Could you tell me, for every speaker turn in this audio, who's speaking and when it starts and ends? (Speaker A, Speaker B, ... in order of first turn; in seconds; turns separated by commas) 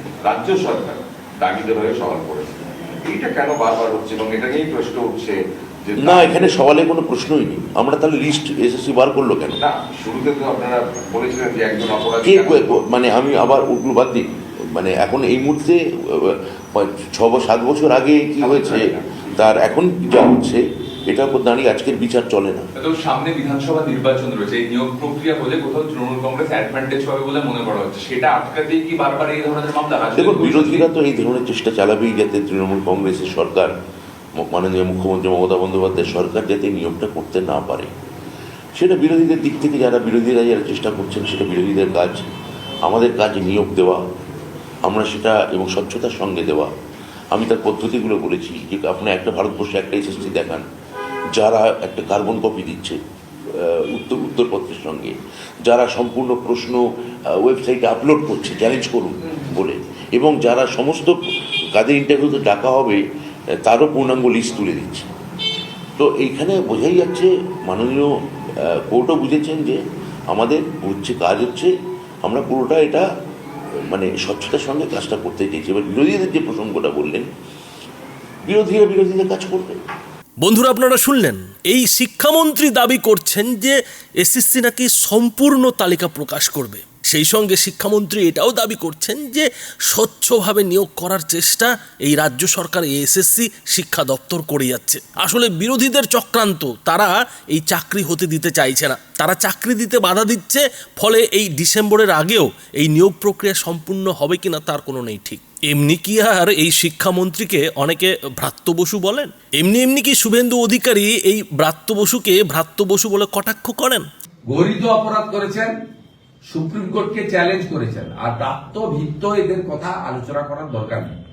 Speaker A: 0.2-6.5, Speaker B: 6.0-9.6, Speaker A: 9.6-12.8, Speaker B: 12.2-22.6, Speaker A: 18.4-19.3, Speaker C: 22.8-30.9, Speaker B: 30.1-33.7, Speaker B: 34.4-37.9, Speaker B: 38.7-42.2, Speaker B: 42.8-44.0, Speaker B: 44.8-46.7, Speaker B: 47.3-50.6, Speaker B: 51.3-61.1, Speaker B: 61.7-63.0, Speaker B: 63.6-65.1, Speaker B: 66.0-71.7, Speaker B: 72.2-73.0, Speaker B: 73.8-77.3, Speaker B: 78.4-79.8, Speaker D: 80.4-114.1, Speaker E: 114.5-115.7, Speaker E: 116.5-121.2